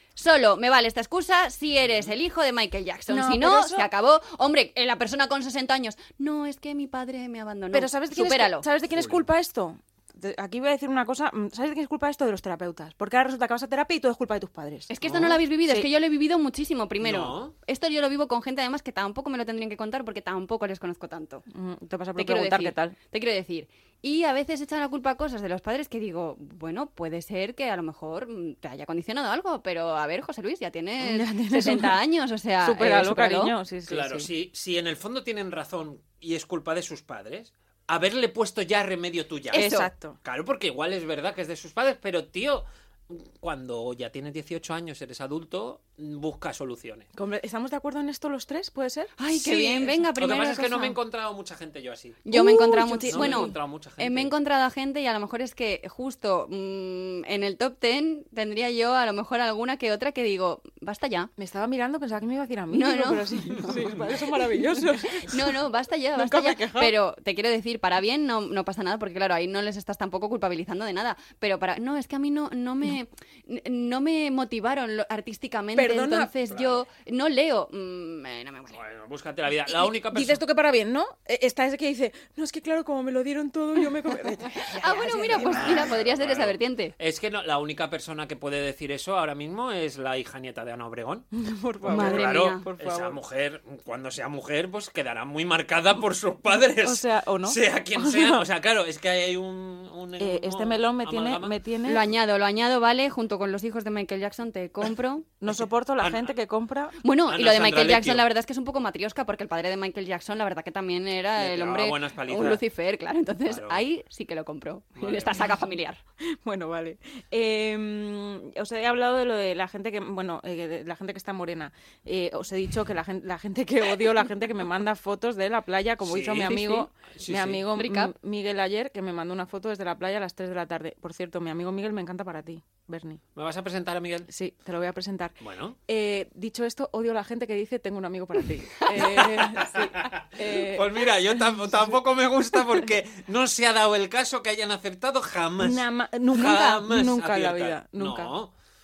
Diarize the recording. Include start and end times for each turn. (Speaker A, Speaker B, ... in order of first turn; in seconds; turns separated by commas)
Speaker A: 0.2-8.7, Speaker B: 3.1-3.9, Speaker B: 7.7-14.9, Speaker C: 8.9-9.2, Speaker A: 14.9-21.4, Speaker C: 15.0-15.4, Speaker C: 17.0-17.5, Speaker B: 21.5-23.0, Speaker A: 22.2-33.5, Speaker B: 31.0-32.0, Speaker B: 32.6-34.3, Speaker C: 33.9-39.7, Speaker A: 39.5-39.9, Speaker B: 39.5-40.2, Speaker C: 40.2-47.1, Speaker B: 47.1-49.1, Speaker A: 49.2-51.0, Speaker C: 49.4-52.3, Speaker A: 52.3-61.3, Speaker B: 52.3-53.5, Speaker C: 53.1-54.3, Speaker B: 61.4-65.5, Speaker A: 62.7-63.8, Speaker A: 65.1-78.8, Speaker B: 66.2-66.9, Speaker B: 75.8-76.3, Speaker C: 76.5-76.8, Speaker C: 78.7-80.4, Speaker B: 79.7-85.9, Speaker A: 84.7-86.9, Speaker C: 85.4-91.3, Speaker B: 91.4-93.2, Speaker C: 91.8-101.6, Speaker A: 91.9-92.7, Speaker B: 96.8-98.4, Speaker B: 100.2-102.0, Speaker A: 101.9-105.3, Speaker B: 105.4-107.0, Speaker C: 105.5-106.3, Speaker A: 107.0-116.0, Speaker C: 107.3-108.2, Speaker C: 111.4-112.6, Speaker C: 113.5-113.8, Speaker C: 115.0-115.5, Speaker B: 116.3-133.2, Speaker C: 126.0-127.7, Speaker A: 127.8-128.1, Speaker C: 133.4-134.3, Speaker B: 134.3-135.4, Speaker C: 135.4-135.8, Speaker B: 135.9-141.1, Speaker C: 138.9-148.5, Speaker B: 145.6-148.3